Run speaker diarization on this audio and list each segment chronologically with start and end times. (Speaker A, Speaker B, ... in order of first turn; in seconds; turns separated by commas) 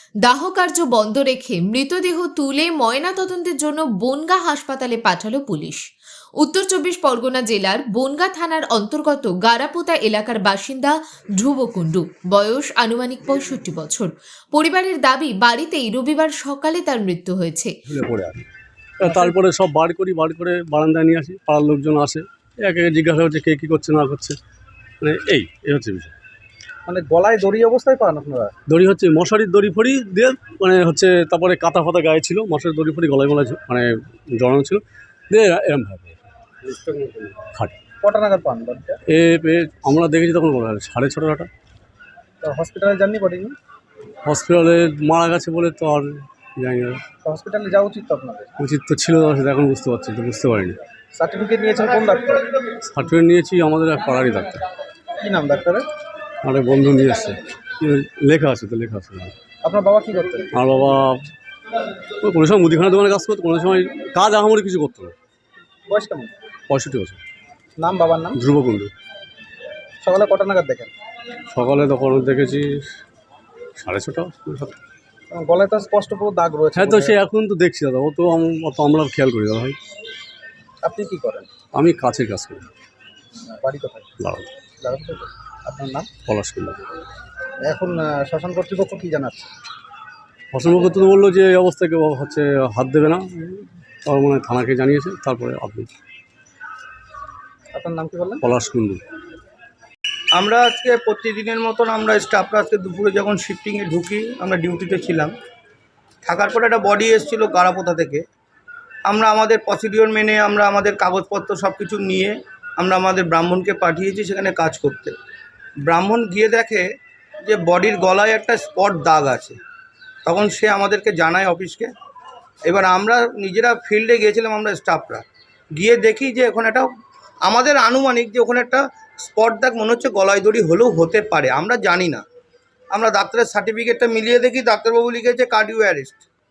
Speaker A: 0.2-5.8, Speaker A: 6.4-17.7, Speaker B: 17.9-18.4, Speaker B: 19.0-24.4, Speaker C: 19.0-19.3, Speaker B: 25.0-26.1, Speaker C: 26.9-28.5, Speaker B: 28.7-37.8, Speaker C: 38.0-39.0, Speaker B: 39.1-41.5, Speaker C: 42.4-43.5, Speaker B: 44.2-47.0, Speaker C: 47.2-48.5, Speaker B: 48.6-50.8, Speaker C: 51.1-52.5, Speaker B: 52.8-54.6, Speaker C: 55.2-55.9, Speaker B: 56.4-59.3, Speaker C: 59.6-60.5, Speaker B: 60.5-61.3, Speaker B: 62.2-65.1, Speaker C: 65.9-66.3, Speaker B: 66.7-67.2, Speaker C: 67.8-68.4, Speaker B: 68.3-68.9, Speaker C: 70.0-70.9, Speaker B: 71.5-72.9, Speaker B: 73.8-74.8, Speaker C: 75.3-77.2, Speaker B: 76.7-79.8, Speaker C: 80.8-81.5, Speaker B: 81.7-82.7, Speaker C: 83.4-84.1, Speaker B: 84.2-84.5, Speaker C: 84.8-86.1, Speaker B: 86.2-86.8, Speaker C: 87.6-89.5, Speaker B: 90.5-95.9, Speaker C: 97.7-98.4, Speaker B: 98.4-99.0, Speaker D: 100.3-105.3, Speaker D: 106.2-108.2, Speaker D: 109.0-115.2, Speaker D: 115.8-116.8, Speaker D: 117.4-119.6, Speaker D: 120.2-121.9, Speaker D: 122.6-125.2, Speaker D: 125.8-126.9, Speaker D: 127.4-132.2, Speaker D: 132.9-136.2